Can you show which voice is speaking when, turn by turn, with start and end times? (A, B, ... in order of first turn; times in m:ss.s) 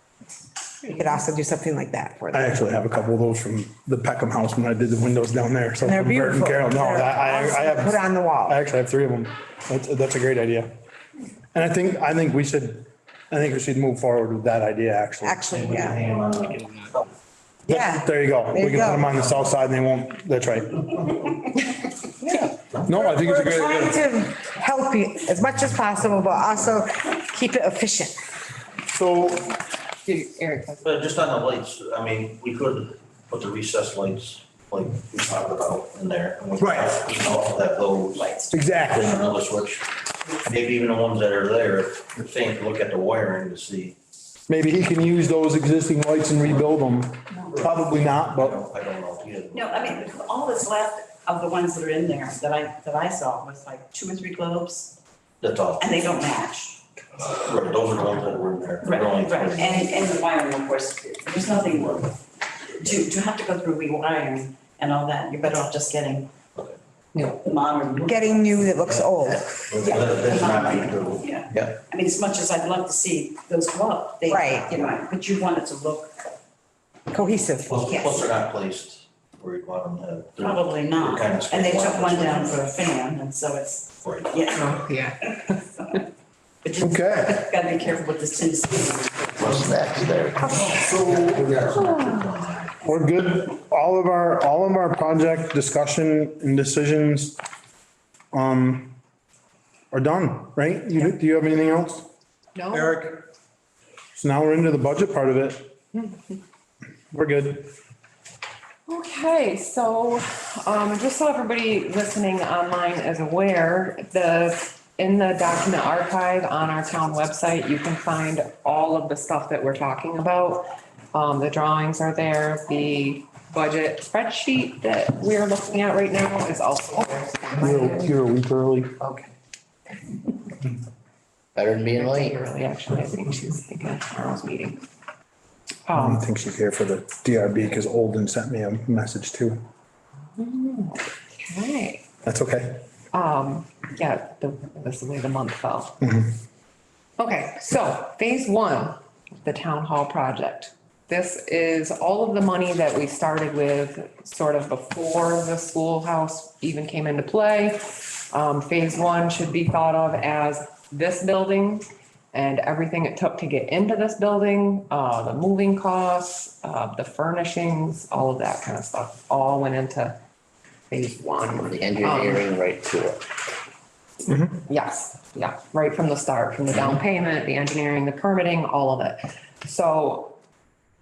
0:00.8-0:02.6 A
0:02.3-0:10.7 B
0:05.8-0:08.6 A
0:11.5-0:15.5 B
0:15.2-0:16.1 A
0:15.5-0:17.0 C
0:17.7-0:19.2 A
0:17.7-0:21.4 B
0:22.8-0:24.0 B
0:22.9-0:28.2 A
0:28.9-0:29.5 B
0:30.0-0:30.8 D
0:30.8-0:38.4 C
0:36.6-0:36.9 B
0:38.1-0:38.8 E
0:38.5-0:39.2 B
0:38.9-0:44.0 C
0:44.5-0:48.6 B
0:47.5-0:49.8 C
0:49.5-0:55.0 E
0:55.4-0:55.9 C
0:55.8-0:56.8 E
0:57.2-0:59.8 C
0:58.8-1:02.1 E
1:02.8-1:06.3 E
1:07.2-1:08.7 E
1:08.1-1:09.6 A
1:08.9-1:11.8 C
1:09.8-1:16.1 E
1:14.3-1:14.7 A
1:17.1-1:17.9 A
1:17.7-1:22.6 C
1:17.9-1:18.3 E
1:20.4-1:24.8 E
1:24.0-1:24.4 C
1:24.5-1:25.6 D
1:26.6-1:29.5 E
1:26.8-1:27.4 B
1:29.4-1:32.8 C
1:29.7-1:30.6 F
1:30.9-1:31.5 B
1:31.8-1:32.2 D
1:32.8-1:37.4 B
1:38.3-1:39.0 B
1:39.9-1:42.1 B
1:42.6-1:43.0 D
1:42.7-1:43.2 B
1:44.2-1:45.8 B
1:47.1-1:47.7 B
1:48.9-2:08.2 D
2:07.6-2:09.1 B
2:11.6-2:12.4 F
2:12.0-2:14.8 D
2:15.9-2:16.3 D
2:15.9-2:19.6 B
2:20.4-2:22.0 D
2:22.2-2:22.8 B
2:23.1-2:26.0 D
2:27.2-2:50.2 D
2:50.9-2:52.5 D
2:51.4-2:53.2 F
2:54.6-3:00.4 D
2:56.7-2:57.0 F